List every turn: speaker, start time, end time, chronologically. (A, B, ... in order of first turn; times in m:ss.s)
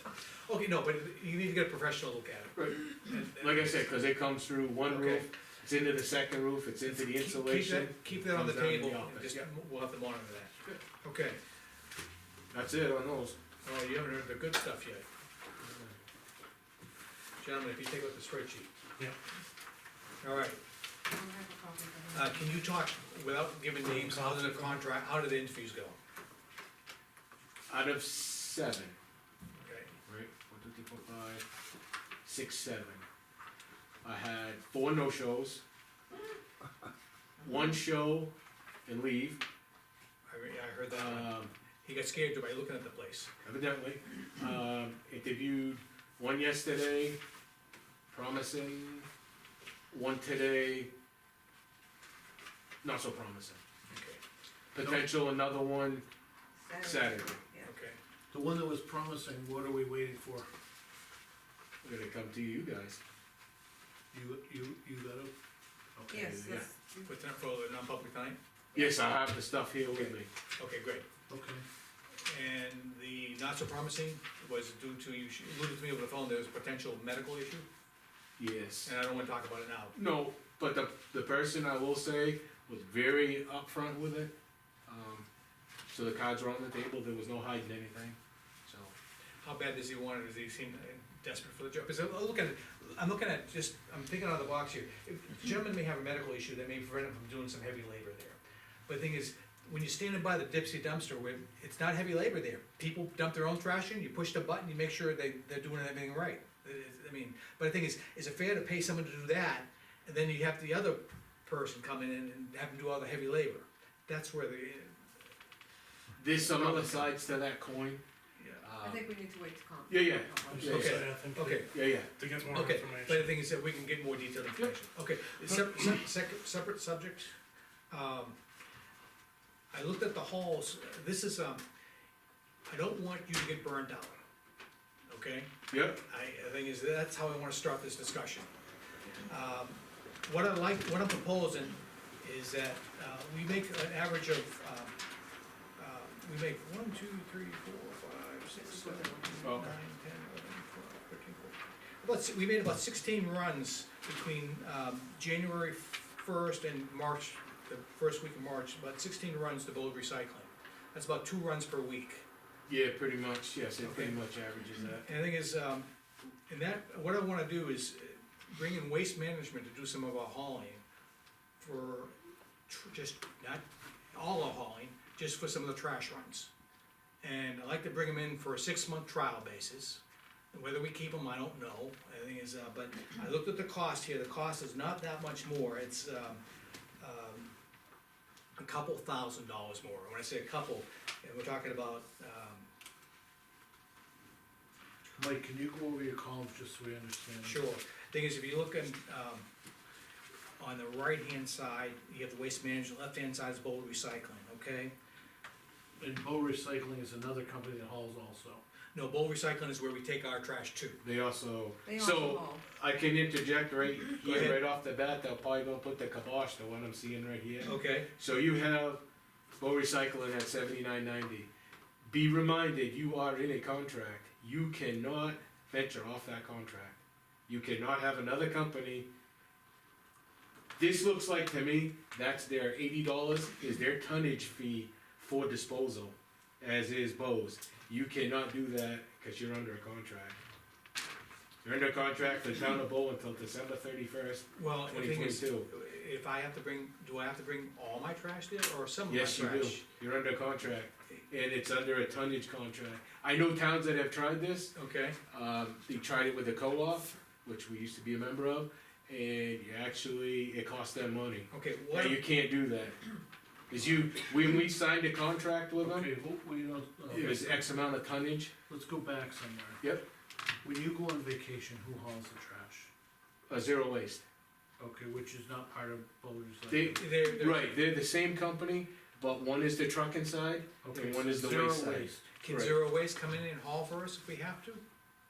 0:00.4-0:03.9 A
0:02.5-0:09.5 B
0:04.9-0:05.2 A
0:06.8-0:11.4 A
0:12.5-0:13.4 B
0:13.6-0:15.0 A
0:15.6-0:15.9 B
0:17.4-0:18.7 A
0:20.2-0:20.6 A
0:21.1-0:22.6 C
0:22.1-0:26.0 A
0:27.7-0:29.0 B
0:29.6-0:29.9 A
0:30.1-0:31.4 B
0:32.2-0:33.0 B
0:34.0-0:35.6 B
0:37.4-0:38.3 B
0:38.8-0:39.4 B
0:40.3-0:43.3 A
0:40.9-0:41.5 B
0:43.4-0:47.2 B
0:48.1-0:49.1 B
0:49.9-0:50.9 B
0:52.8-0:53.6 B
0:53.9-0:54.2 A
0:54.7-0:56.0 B
0:54.8-0:55.1 A
0:56.6-0:57.7 C
0:56.8-0:57.4 B
0:57.6-0:58.0 A
0:58.3-1:00.5 D
1:01.8-1:03.0 B
1:04.1-1:05.3 D
1:06.0-1:06.3 D
1:06.1-1:07.1 C
1:06.1-1:06.7 B
1:06.6-1:08.4 A
1:08.7-1:10.3 B
1:09.9-1:11.0 A
1:11.3-1:11.6 D
1:12.2-1:17.6 A
1:18.4-1:18.9 B
1:18.8-1:20.0 A
1:19.9-1:24.3 B
1:24.8-1:25.3 B
1:25.9-1:28.9 B
1:29.4-1:55.0 A
1:56.2-1:58.0 B
1:56.3-1:57.1 A
1:58.4-1:58.7 A
1:58.6-1:59.1 B
1:58.8-2:00.7 C
1:59.9-2:01.2 B
2:00.5-2:03.4 D
2:00.6-2:01.7 A
2:01.7-2:02.1 B
2:02.4-2:07.3 A
2:07.9-2:08.4 A
2:09.7-2:11.6 A
2:12.7-2:14.2 A
2:15.1-2:18.5 A
2:15.7-2:16.0 B
2:19.2-2:24.9 A
2:25.8-2:42.2 A
2:28.7-2:29.3 C
2:29.4-2:29.7 B
2:42.7-2:45.0 B
2:43.8-2:44.2 A
2:45.0-2:45.9 A
2:46.5-2:50.8 A
2:51.6-2:52.1 A
2:52.7-2:56.5 A
2:57.2-3:00.0 A
3:00.5-3:06.4 A
3:07.0-3:07.5 A
3:08.6-3:12.7 A
3:15.2-3:17.6 D
3:17.4-3:19.4 A
3:20.6-3:24.9 A
3:26.0-3:28.6 D
3:28.9-3:31.0 A
3:31.0-3:39.0 B
3:31.8-3:32.6 C
3:34.2-3:34.6 A
3:37.6-3:38.1 A
3:39.6-3:41.5 B
3:42.0-3:49.1 B
3:50.8-4:00.4 B
4:01.6-4:05.7 B
4:04.5-4:09.8 A
4:09.1-4:14.7 B
4:14.7-4:15.2 A
4:15.3-4:23.0 B
4:21.5-4:22.2 A
4:23.7-4:26.1 B
4:25.8-4:27.6 D
4:27.1-4:28.5 B
4:28.7-4:29.8 D
4:30.6-4:32.9 D
4:33.5-4:34.2 B
4:34.8-4:37.1 D
4:36.7-4:42.8 B
4:36.9-4:37.8 A
4:40.8-4:42.2 D
4:42.4-4:44.8 A